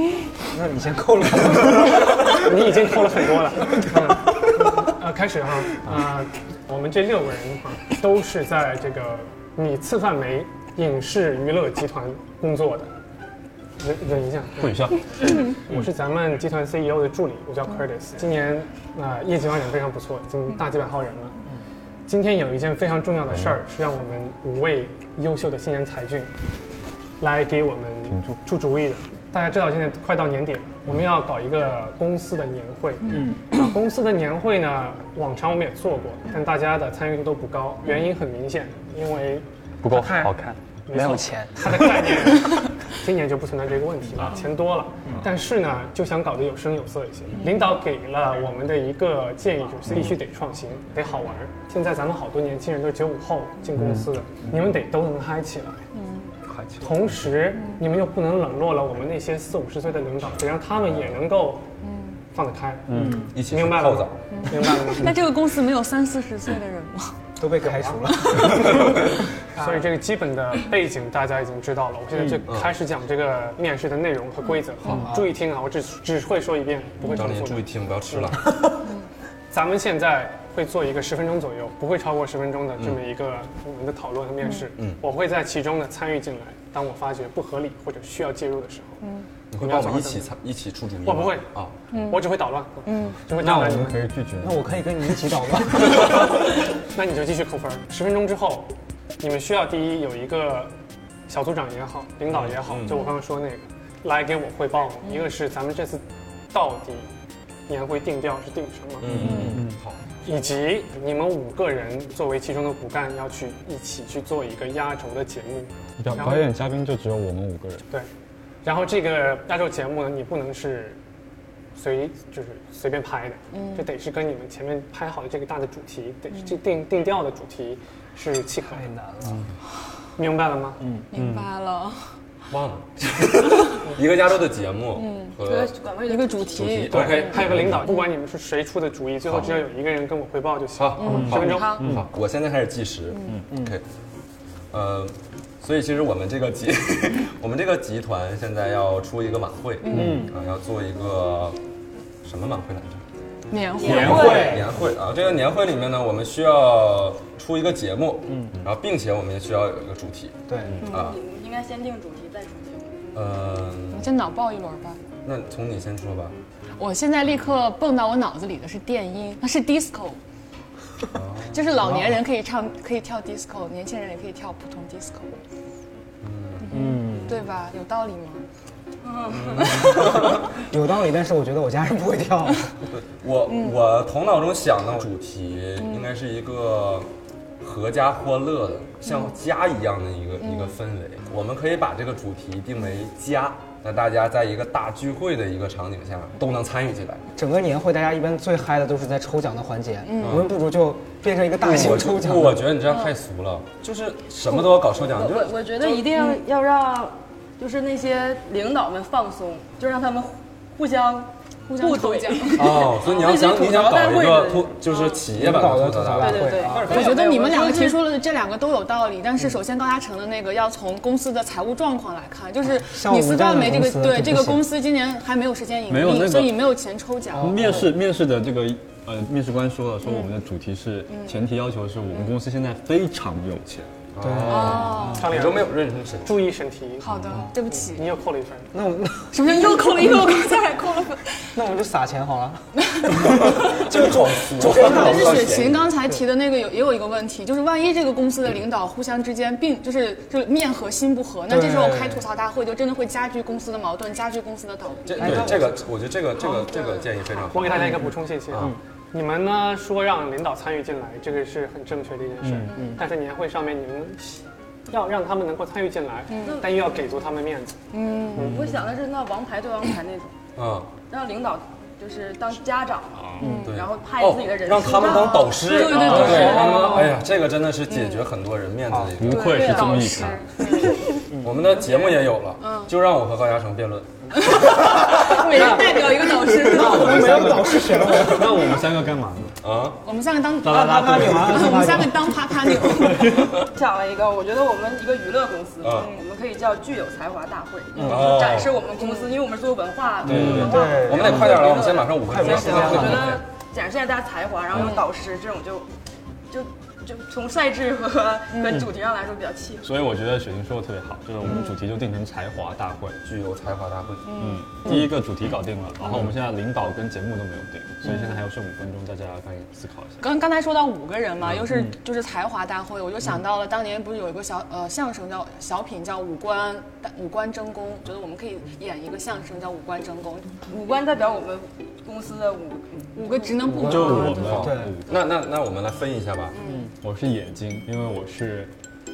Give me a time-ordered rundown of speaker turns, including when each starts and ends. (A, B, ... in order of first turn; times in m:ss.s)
0:00.5-0:04.6 A
0:02.1-0:12.9 B
0:13.8-0:21.3 B
0:14.6-0:15.0 C
0:22.1-0:26.3 B
0:23.3-0:23.6 C
0:27.2-0:40.3 B
0:28.1-0:28.4 C
0:33.1-0:33.4 A
0:39.8-0:40.6 C
0:40.9-0:55.8 B
0:40.9-0:42.2 A
0:47.4-0:47.7 D
0:53.8-0:54.0 C
0:55.9-0:56.3 D
0:56.6-0:56.9 C
0:56.8-1:01.7 B
0:57.5-0:57.8 D
1:01.8-1:02.2 D
1:02.2-1:05.2 B
1:02.9-1:03.3 C
1:03.0-1:03.2 A
1:03.3-1:04.2 E
1:04.3-1:07.2 D
1:07.4-1:09.0 A
1:08.0-1:09.0 D
1:09.5-1:18.4 B
1:12.4-1:12.7 E
1:14.9-1:15.3 A
1:17.0-1:18.6 E
1:19.5-1:29.0 B
1:22.8-1:23.0 E
1:29.0-1:29.3 D
1:29.5-1:31.7 E
1:29.6-1:30.3 B
1:31.0-1:31.5 B
1:31.9-1:32.3 D
1:32.0-1:34.0 B
1:32.8-1:33.2 D
1:33.3-1:34.8 C
1:34.4-1:36.2 A
1:36.9-1:40.7 B
1:41.3-1:47.1 B
1:42.3-1:43.0 E
1:45.0-1:45.3 D
1:47.7-1:49.2 B
1:49.0-1:50.0 E
1:49.1-1:49.8 C
1:50.2-1:56.5 B
1:56.0-1:57.8 C
1:58.6-2:01.0 B
2:01.7-2:08.9 B
2:03.5-2:03.9 D
2:06.3-2:06.6 D
2:08.7-2:09.4 A
2:10.2-2:10.8 B
2:11.1-2:12.1 D
2:11.1-2:11.5 C
2:12.5-2:15.8 E
2:14.9-2:15.4 D
2:15.4-2:16.9 F
2:16.0-2:18.1 D
2:16.5-2:17.9 E
2:16.9-2:21.8 B
2:19.2-2:19.6 E
2:20.8-2:23.8 E
2:21.0-2:21.9 D
2:21.1-2:22.0 C
2:23.1-2:23.4 D
2:24.7-2:31.6 E
2:29.8-2:30.3 D
2:29.9-2:30.3 C
2:29.9-2:30.3 A
2:32.2-2:33.0 E
2:33.5-2:34.5 D
2:33.8-2:34.5 F
2:33.8-2:41.2 E
2:33.8-2:34.5 C
2:34.0-2:34.8 A
2:40.5-2:40.8 A
2:40.8-2:43.0 F
2:43.1-2:44.2 E
2:43.9-2:45.0 D
2:45.2-2:46.4 E
2:46.8-2:50.2 D
2:51.1-2:51.8 E
2:51.5-2:55.3 D
2:51.8-2:52.1 A
2:56.2-2:56.9 E
2:56.7-2:57.3 C
2:56.8-2:57.0 A
2:56.8-2:58.4 D
2:59.0-2:59.7 F
2:59.3-3:00.4 E
3:00.0-3:02.7 A
3:02.9-3:07.1 E
3:03.4-3:03.9 D
3:05.8-3:06.1 D
3:07.6-3:17.2 E
3:09.0-3:09.3 D
3:10.4-3:10.8 D
3:17.3-3:22.7 A
3:20.0-3:20.5 D
3:20.2-3:20.5 E
3:21.6-3:25.7 E
3:22.9-3:23.1 D
3:24.5-3:35.0 F
3:25.8-3:26.4 D
3:31.6-3:33.0 D
3:32.5-3:36.7 E
3:34.9-3:35.2 D
3:35.3-3:37.2 A
3:36.2-3:38.0 F
3:36.7-3:47.9 D
3:42.7-3:44.7 A
3:45.9-3:46.7 C
3:47.3-3:53.9 C
3:47.6-3:47.8 A
3:50.0-3:50.3 D
3:51.1-3:51.4 D
3:52.1-3:52.4 D
3:54.1-3:56.4 E
3:54.2-3:55.2 A
3:54.5-3:55.3 D
3:55.1-3:57.1 B
3:57.0-3:58.1 D
3:57.8-3:58.7 B
3:58.7-3:59.7 A
3:59.3-4:01.4 D
4:01.5-4:05.5 A
4:02.8-4:03.9 D
4:03.2-4:05.9 E
4:04.7-4:15.6 D
4:04.9-4:05.5 F
4:11.5-4:12.2 A
4:15.1-4:18.7 E
4:15.2-4:15.8 A
4:16.4-4:17.2 D
4:17.5-4:27.8 B
4:22.4-4:22.7 C
4:22.7-4:23.0 D
4:26.3-4:26.6 D
4:26.4-4:26.7 F
4:27.9-4:28.5 D
4:28.3-4:30.4 F
4:28.4-4:28.7 B
4:30.6-4:30.9 E
4:31.1-4:37.2 F
4:33.4-4:33.8 D
4:33.6-4:39.8 E
4:35.1-4:37.2 D
4:37.9-4:38.2 D
4:38.9-4:39.1 A
4:39.2-4:40.4 C
4:39.3-4:41.3 D
4:39.3-4:41.0 F
4:41.4-4:44.7 E
4:42.6-4:42.9 D
4:44.4-4:47.1 D
4:45.0-4:47.1 F
4:46.6-4:48.7 A
4:46.7-4:49.6 C
4:49.6-4:50.0 E
4:50.0-4:53.5 D
4:50.6-4:52.0 C
4:50.6-4:52.6 A
4:53.4-5:05.9 F
4:55.8-4:56.1 E
4:58.0-4:58.2 A
4:58.0-4:58.8 E
4:59.0-4:59.3 D
5:00.2-5:03.4 E
5:00.2-5:00.7 C
5:00.4-5:03.4 A
5:04.7-5:05.0 D
5:06.5-5:09.9 F
5:08.5-5:08.8 D
5:09.8-5:13.2 C
5:11.4-5:11.7 D
5:13.2-5:14.3 E
5:14.2-5:14.8 D
5:14.3-5:20.2 C
5:18.0-5:18.4 D
5:20.2-5:30.5 D
5:30.7-5:33.1 F
5:33.1-5:34.7 D
5:33.6-5:34.9 A
5:33.8-5:35.2 C
5:33.9-5:36.6 E
5:36.6-5:36.9 F
5:37.0-5:38.7 C